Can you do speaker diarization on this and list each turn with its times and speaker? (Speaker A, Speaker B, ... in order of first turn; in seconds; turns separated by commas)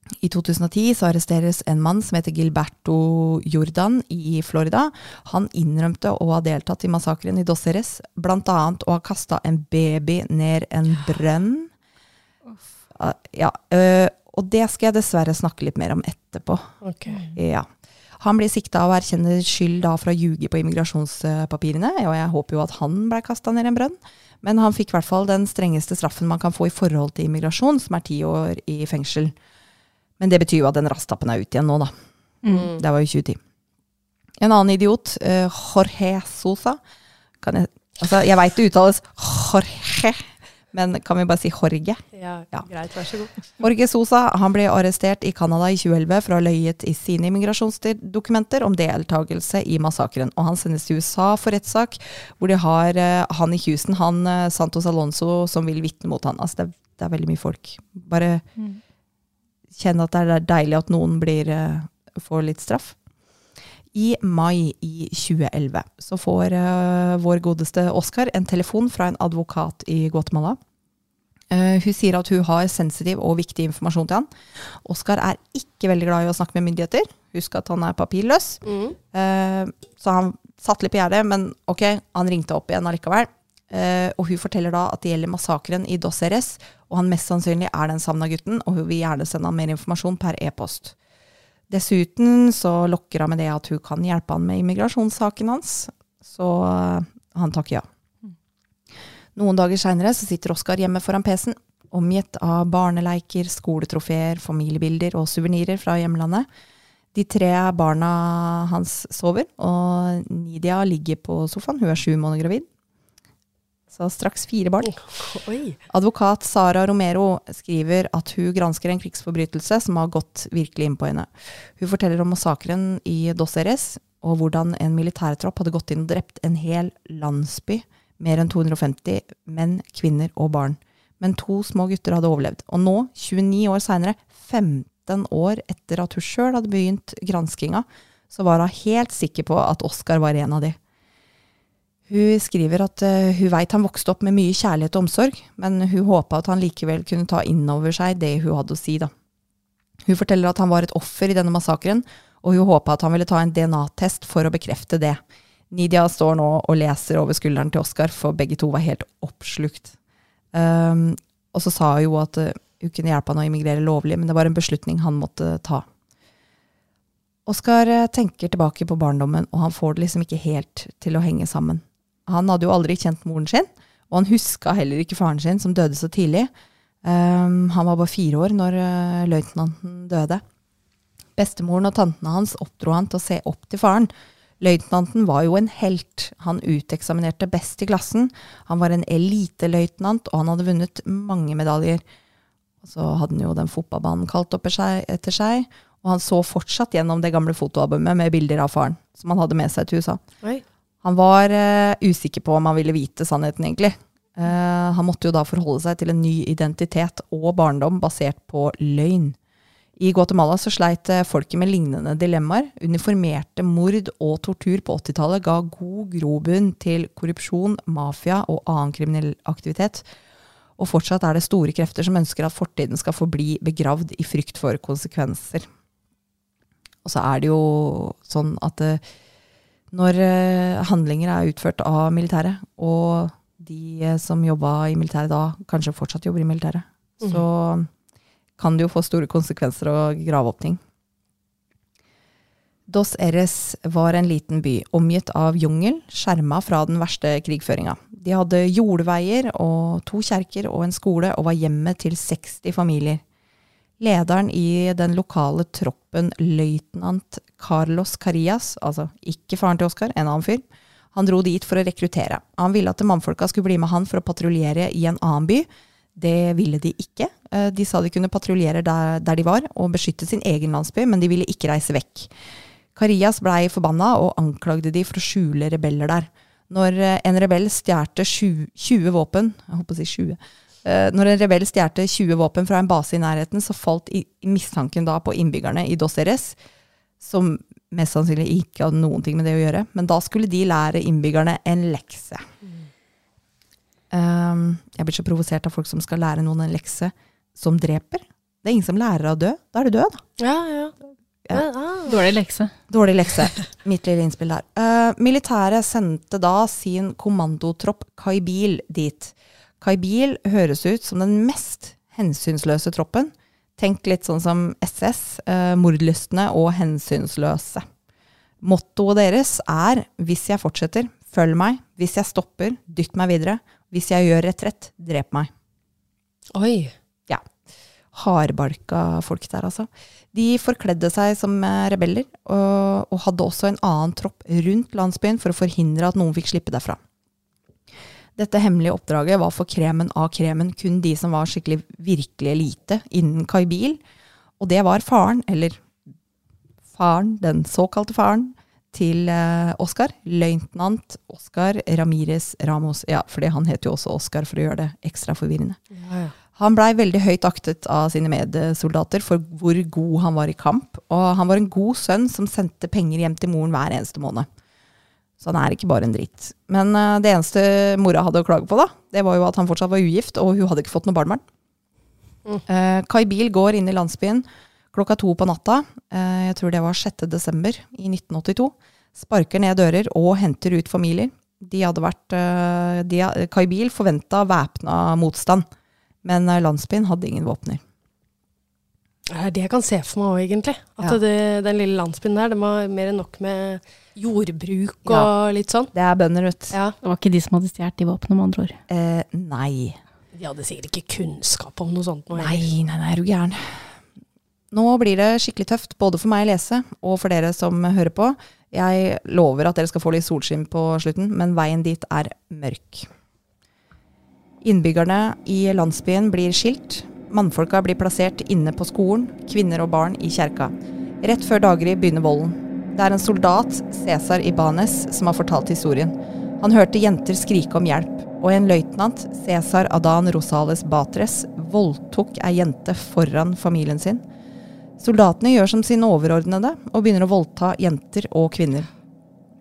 Speaker A: 0.2-11.7, Speaker A: 12.9-16.7, Speaker B: 16.8-17.3, Speaker A: 17.3-17.7, Speaker A: 18.2-29.3, Speaker A: 30.2-31.9, Speaker C: 32.4-32.7, Speaker B: 32.5-32.8, Speaker A: 32.8-33.4, Speaker A: 34.4-36.8, Speaker A: 37.4-42.6, Speaker B: 42.1-43.5, Speaker A: 43.6-58.4, Speaker A: 59.7-63.0, Speaker A: 63.9-70.6, Speaker A: 71.5-90.9, Speaker B: 78.6-79.0, Speaker A: 91.7-97.8, Speaker A: 99.3-106.5, Speaker A: 107.1-112.7, Speaker A: 113.9-115.0, Speaker B: 114.8-115.8, Speaker A: 115.9-140.8, Speaker A: 142.1-149.1, Speaker A: 150.1-159.9, Speaker A: 160.5-165.8, Speaker A: 167.4-176.5, Speaker A: 177.0-180.4, Speaker A: 181.4-192.0, Speaker A: 192.8-200.2, Speaker A: 201.0-209.4, Speaker A: 210.0-220.0, Speaker A: 220.8-225.7, Speaker A: 227.0-229.0, Speaker A: 229.9-237.9, Speaker A: 238.6-240.8, Speaker A: 242.9-253.2, Speaker A: 254.0-260.6, Speaker A: 261.1-272.3, Speaker A: 272.9-286.6, Speaker A: 287.2-292.4, Speaker A: 294.1-300.2, Speaker B: 300.4-300.9, Speaker B: 301.5-302.2, Speaker C: 302.1-302.7, Speaker A: 302.9-317.8, Speaker A: 318.6-325.5, Speaker B: 326.5-326.9, Speaker A: 328.1-337.0, Speaker A: 338.4-344.0, Speaker A: 344.6-345.8, Speaker A: 346.9-355.8, Speaker B: 355.9-356.3, Speaker A: 356.6-364.5, Speaker A: 365.4-371.4, Speaker A: 372.7-385.6, Speaker A: 386.2-387.8, Speaker B: 389.3-395.9, Speaker A: 395.9-396.7, Speaker C: 397.0-398.8, Speaker A: 398.9-400.0, Speaker B: 400.3-402.7, Speaker A: 402.3-403.9, Speaker A: 404.7-413.1, Speaker A: 414.6-434.2, Speaker A: 435.0-438.9